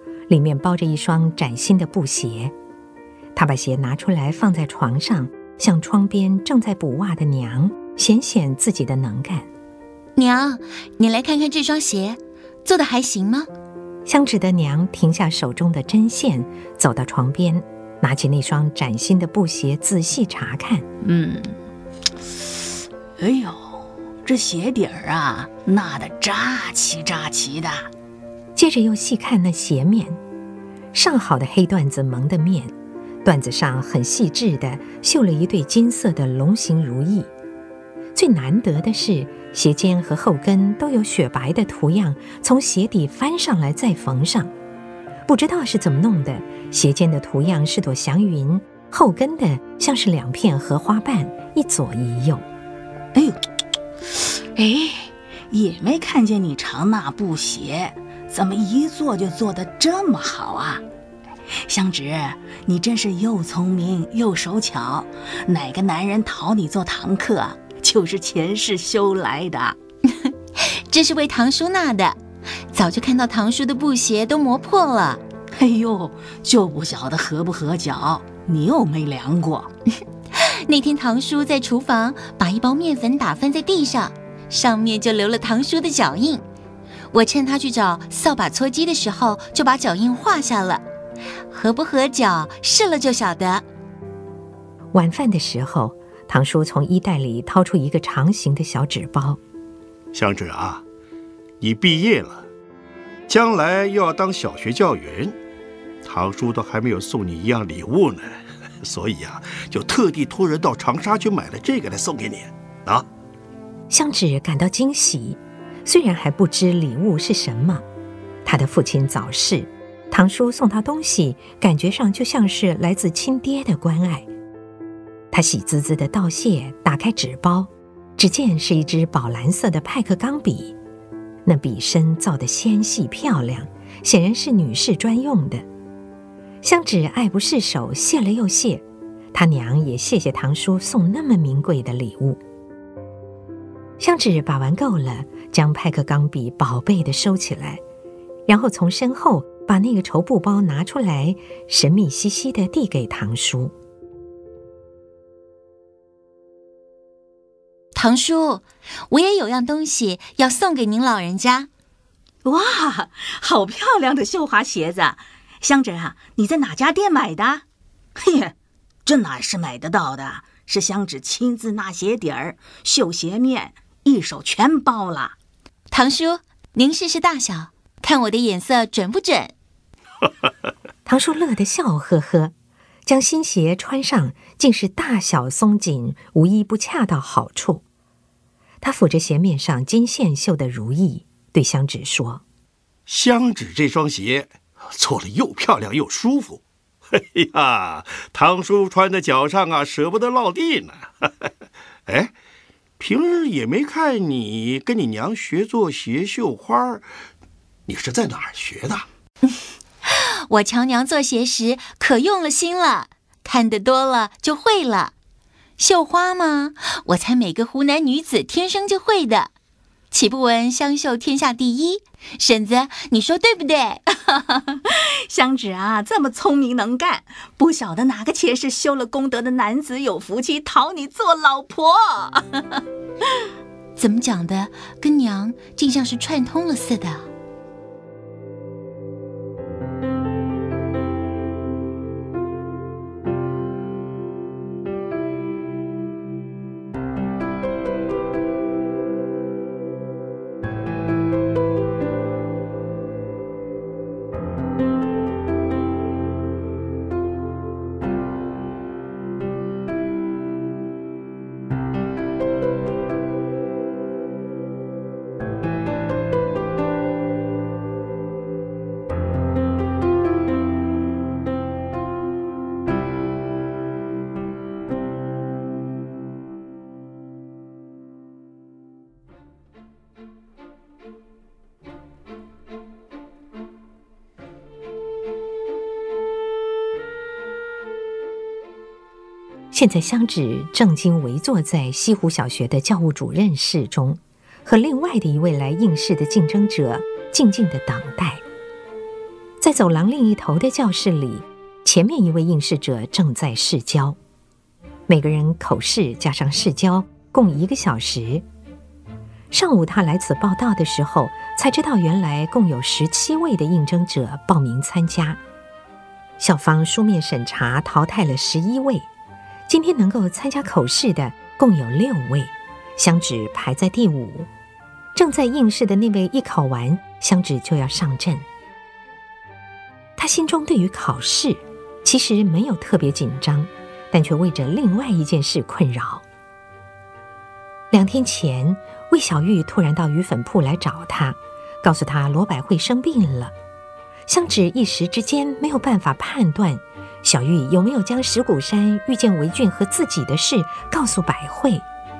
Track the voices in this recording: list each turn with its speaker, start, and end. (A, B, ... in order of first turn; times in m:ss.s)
0:00.3-0:02.5 A
0:03.4-0:09.5 A
0:10.2-0:13.5 B
0:14.0-0:20.8 A
0:23.2-0:27.9 C
0:28.6-0:30.2 A
0:30.9-0:32.7 A
0:33.2-0:37.3 A
0:38.1-0:44.5 A
0:45.3-0:52.4 A
0:54.1-1:00.8 C
1:01.7-1:09.8 C
1:10.1-1:12.2 B
1:12.7-1:15.2 B
1:15.6-1:19.7 C
1:20.3-1:26.4 B
1:27.1-1:30.8 B
1:31.5-1:33.6 B
1:34.9-1:39.4 A
1:40.1-1:40.8 D
1:41.6-1:42.4 D
1:43.3-1:45.4 D
1:46.0-1:53.0 D
1:53.9-1:57.8 A
1:58.4-2:04.2 A
2:05.3-2:10.7 A
2:11.4-2:15.6 A
2:16.6-2:22.4 A
2:24.0-2:27.8 A
2:28.5-2:33.7 A
2:37.9-2:41.7 B
2:42.4-2:47.6 C
2:48.2-2:48.5 C
2:49.0-2:55.3 C
2:55.9-2:59.5 B
3:01.0-3:02.5 A
3:03.0-3:07.8 A
3:08.8-3:12.4 A
3:13.1-3:16.6 D
3:17.1-3:21.3 D
3:22.1-3:22.3 D
3:23.0-3:27.0 D
3:27.9-3:29.0 D
3:30.0-3:35.1 B
3:35.8-3:39.5 B
3:40.1-3:44.0 B
3:44.3-3:52.8 C
3:54.0-3:57.3 B
4:49.7-4:58.4 A
4:59.6-5:04.2 A
5:05.1-5:08.4 A
5:09.5-5:15.4 A
5:16.4-5:19.1 A
5:19.7-5:24.5 A
5:25.1-5:28.4 A
5:30.2-5:36.2 A
5:37.9-5:43.5 A
5:44.3-5:51.8 A